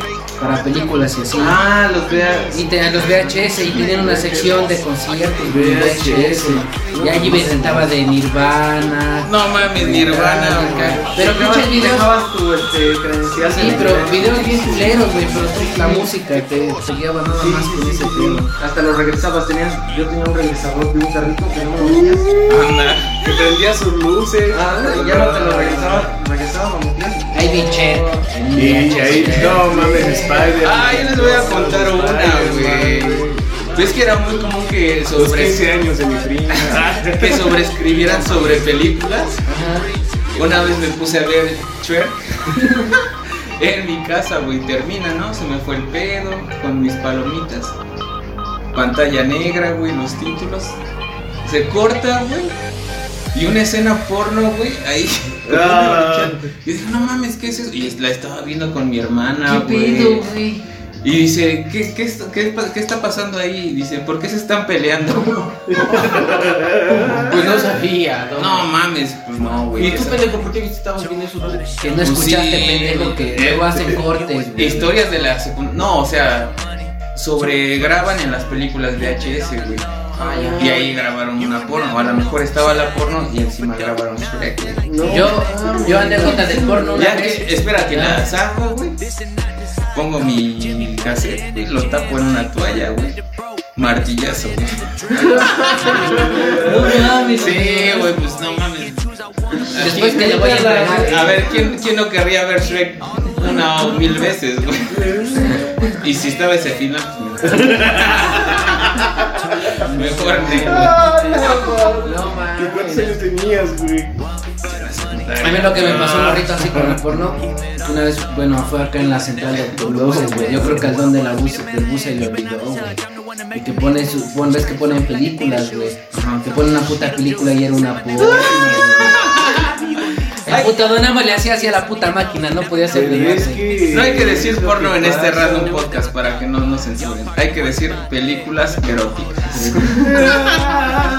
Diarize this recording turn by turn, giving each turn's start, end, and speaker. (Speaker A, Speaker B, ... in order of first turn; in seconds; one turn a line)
Speaker A: 0.4-1.6
Speaker B: 1.4-4.7
Speaker A: 2.5-12.1
Speaker C: 5.4-7.9
Speaker D: 9.2-11.1
Speaker B: 9.9-16.1
Speaker A: 13.4-18.5
Speaker C: 13.6-15.4
Speaker B: 17.3-22.3
Speaker C: 21.8-26.1
Speaker D: 22.5-23.5
Speaker B: 24.5-28.2
Speaker A: 27.3-30.4
Speaker C: 28.5-34.0
Speaker B: 29.6-30.5
Speaker D: 30.6-35.7
Speaker C: 35.1-37.6
Speaker D: 36.5-39.4
Speaker C: 38.2-38.6
Speaker A: 39.4-39.9
Speaker D: 40.3-47.7
Speaker D: 48.7-50.8
Speaker D: 51.4-52.5
Speaker D: 53.3-60.3
Speaker C: 55.5-56.5
Speaker A: 59.4-60.6
Speaker D: 61.0-66.5
Speaker C: 65.7-67.4
Speaker E: 67.0-68.7
Speaker D: 68.3-70.3
Speaker E: 69.7-71.7
Speaker A: 71.8-74.9
Speaker D: 72.0-76.5
Speaker D: 77.1-84.8
Speaker B: 80.2-80.9
Speaker E: 80.2-80.6
Speaker B: 84.8-87.2
Speaker A: 85.0-88.2
Speaker D: 86.9-89.0
Speaker D: 89.9-93.2
Speaker D: 93.8-108.9
Speaker A: 96.1-98.1
Speaker C: 96.2-96.9
Speaker A: 99.7-101.4
Speaker E: 99.8-101.3
Speaker C: 104.9-105.5
Speaker A: 105.5-105.9
Speaker C: 107.5-109.0
Speaker D: 109.7-111.0
Speaker A: 109.9-111.0
Speaker C: 110.5-114.1
Speaker B: 112.0-113.1
Speaker D: 114.7-116.8
Speaker A: 115.4-123.0
Speaker C: 116.6-117.0
Speaker C: 119.8-121.0
Speaker A: 123.5-129.2
Speaker D: 126.1-126.4
Speaker D: 128.2-130.8
Speaker A: 130.4-133.6
Speaker C: 132.9-135.8
Speaker D: 133.9-140.8
Speaker A: 139.5-140.3
Speaker C: 140.1-140.8